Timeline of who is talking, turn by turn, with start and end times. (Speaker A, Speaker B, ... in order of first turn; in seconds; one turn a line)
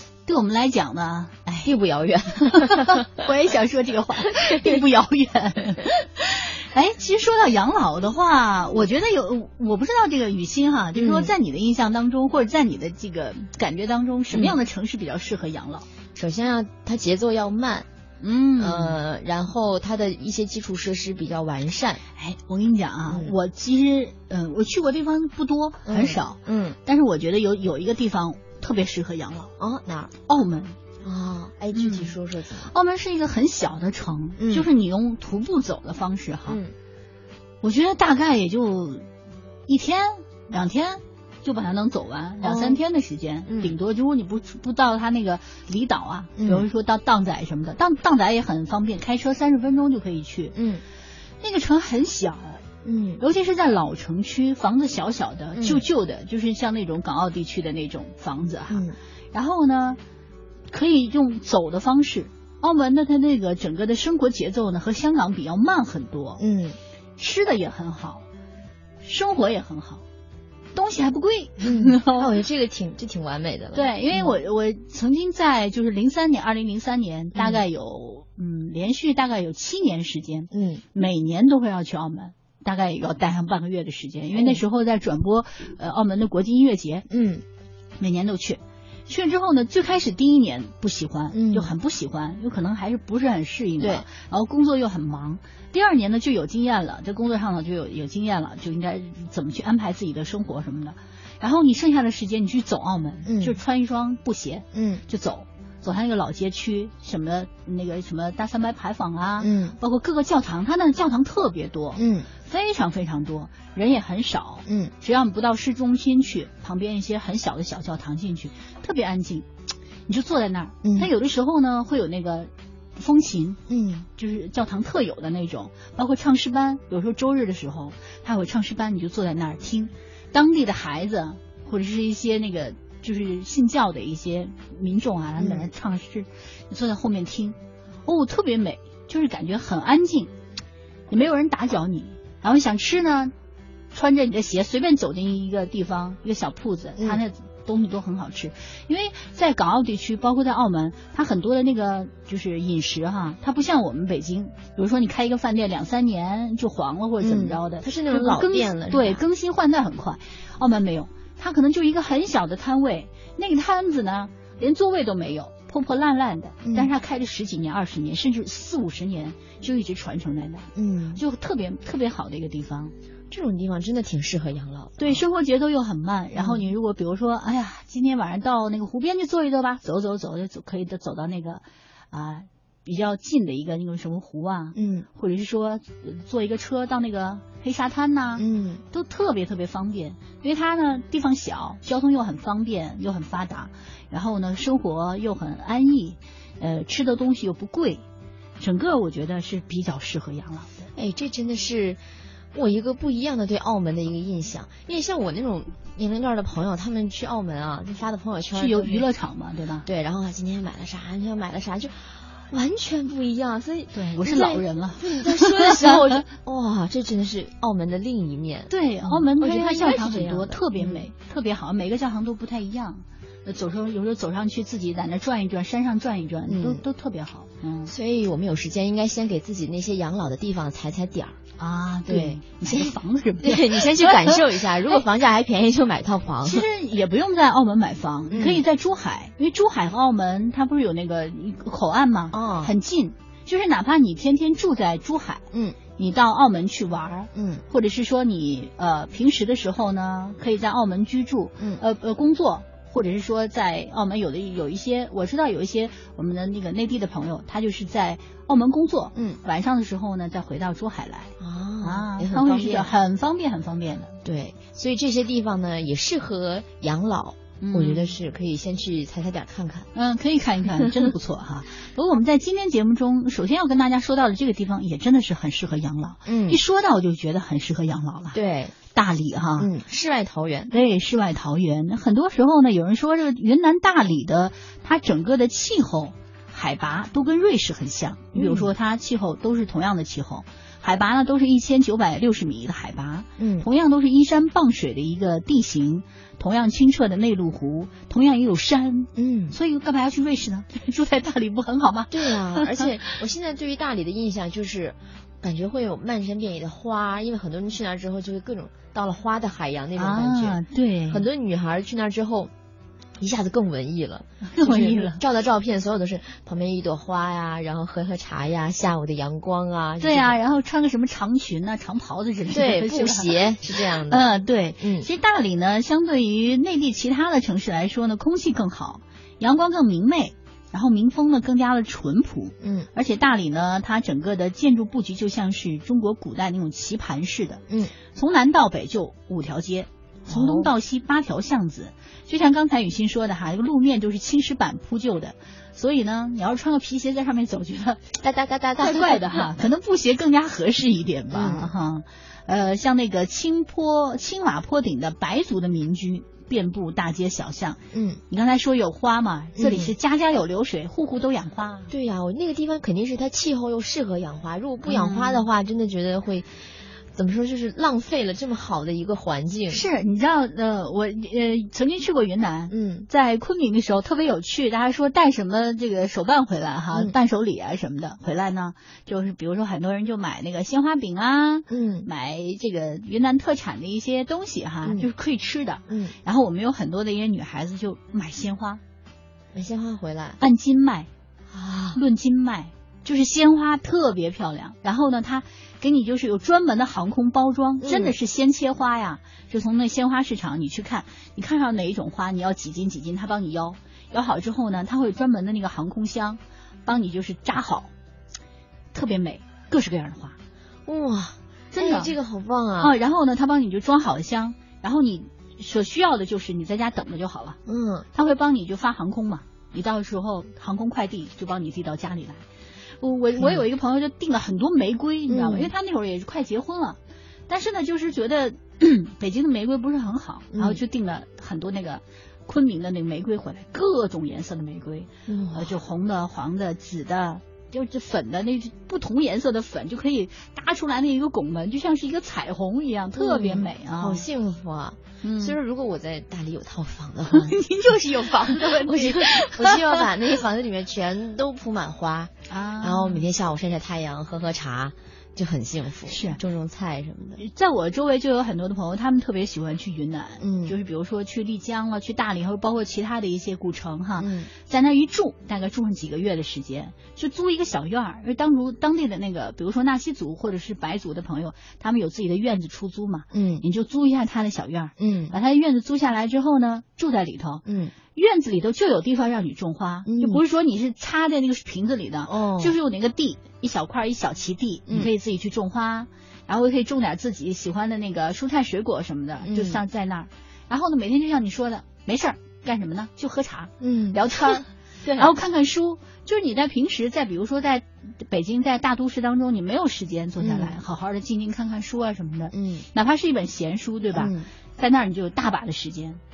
Speaker A: 0.2-1.7
Speaker B: 1.6-3.3
Speaker A: 2.5-15.9
Speaker B: 10.9-11.3
Speaker B: 14.3-14.6
Speaker B: 16.1-17.9
Speaker A: 18.2-19.0
Speaker B: 18.6-22.0
Speaker A: 22.2-29.5
Speaker B: 23.1-23.3
Speaker B: 25.9-26.8
Speaker B: 29.6-30.1
Speaker A: 30.3-30.8
Speaker B: 31.0-32.7
Speaker A: 31.7-36.6
Speaker B: 34.4-34.7
Speaker B: 36.5-36.7
Speaker A: 37.6-39.0
Speaker A: 39.7-50.5
Speaker B: 42.4-42.8
Speaker B: 43.5-43.8
Speaker B: 46.4-46.7
Speaker B: 50.5-50.8
Speaker A: 51.4-52.6
Speaker B: 52.8-53.2
Speaker A: 53.2-60.0
Speaker B: 55.5-55.8
Speaker B: 58.7-59.0
Speaker A: 60.7-66.4
Speaker B: 66.4-66.8
Speaker A: 67.2-68.2
Speaker A: 69.0-70.0
Speaker A: 70.8-72.3
Speaker B: 71.6-74.4
Speaker A: 73.7-87.0
Speaker B: 77.3-77.6
Speaker B: 80.5-80.8
Speaker B: 84.3-84.6
Speaker B: 87.1-87.4
Speaker A: 88.0-119.5
Speaker B: 91.3-91.7
Speaker B: 93.8-94.0
Speaker B: 103.2-103.6
Speaker B: 104.7-105.0
Speaker B: 109.4-109.8
Speaker B: 112.0-112.3
Speaker B: 114.7-114.9
Speaker A: 120.1-123.6
Speaker B: 120.8-121.1
Speaker B: 123.7-124.0
Speaker A: 124.2-140.3
Speaker B: 135.4-135.7
Speaker A: 141.1-143.3
Speaker A: 143.9-172.9
Speaker B: 157.2-159.2
Speaker B: 166.6-166.9
Speaker B: 170.8-171.2
Speaker B: 173.3-175.2
Speaker A: 175.0-198.0
Speaker B: 176.4-176.7
Speaker B: 184.8-185.1
Speaker B: 188.4-188.8
Speaker A: 198.6-200.9
Speaker B: 200.9-202.0
Speaker B: 202.5-209.1
Speaker A: 208.5-209.9
Speaker B: 209.8-221.1
Speaker A: 213.9-215.9
Speaker A: 218.7-227.9
Speaker B: 226.5-226.8
Speaker B: 227.8-231.4
Speaker A: 231.6-234.4
Speaker B: 232.1-236.7
Speaker A: 236.4-245.4
Speaker B: 238.3-238.7
Speaker B: 242.3-242.7
Speaker B: 245.5-245.8
Speaker A: 246.0-264.1
Speaker B: 247.3-247.6
Speaker B: 259.1-259.4
Speaker B: 261.4-262.9
Speaker B: 264.2-269.9
Speaker A: 267.6-268.1
Speaker A: 269.9-278.4
Speaker B: 276.2-276.6
Speaker B: 278.3-278.8
Speaker A: 278.9-279.7
Speaker B: 279.6-280.7
Speaker A: 280.7-303.2
Speaker B: 288.3-288.7
Speaker B: 293.4-293.7
Speaker B: 299.1-299.6
Speaker B: 302.1-312.5
Speaker A: 310.0-311.2
Speaker B: 313.2-320.4
Speaker A: 314.5-315.2
Speaker A: 320.0-348.1
Speaker B: 322.5-324.2
Speaker B: 324.8-325.1
Speaker B: 332.6-332.9
Speaker B: 340.3-340.7
Speaker B: 348.2-349.5
Speaker A: 348.8-357.8
Speaker B: 351.3-351.7
Speaker B: 357.9-358.2
Speaker A: 358.3-361.9
Speaker B: 359.6-359.9
Speaker B: 361.9-369.8
Speaker A: 364.9-365.5
Speaker A: 369.7-388.8
Speaker B: 372.7-373.1
Speaker B: 381.7-382.1
Speaker B: 384.8-385.1
Speaker B: 385.9-386.1
Speaker B: 389.5-390.4
Speaker A: 390.4-391.1
Speaker B: 391.5-392.0
Speaker A: 391.9-407.9
Speaker B: 397.8-398.1
Speaker A: 408.9-410.4
Speaker B: 410.9-412.9
Speaker A: 411.7-412.1
Speaker A: 412.8-417.6
Speaker B: 417.6-418.1
Speaker A: 418.1-422.4
Speaker A: 423.0-427.0
Speaker B: 425.3-425.7
Speaker A: 427.5-444.2
Speaker B: 430.5-430.8
Speaker B: 435.3-435.8
Speaker B: 443.1-457.4
Speaker A: 445.2-445.6
Speaker A: 447.3-450.0
Speaker A: 452.5-453.2
Speaker A: 456.1-456.4
Speaker A: 457.4-477.6
Speaker B: 460.4-460.8
Speaker B: 464.2-464.5
Speaker B: 473.3-473.6
Speaker B: 475.0-475.3
Speaker B: 477.6-477.9
Speaker A: 478.1-506.2
Speaker B: 480.1-480.4
Speaker B: 482.2-482.8
Speaker B: 489.4-489.8
Speaker B: 493.8-495.3
Speaker B: 500.4-500.8
Speaker B: 502.5-502.9
Speaker B: 504.1-504.5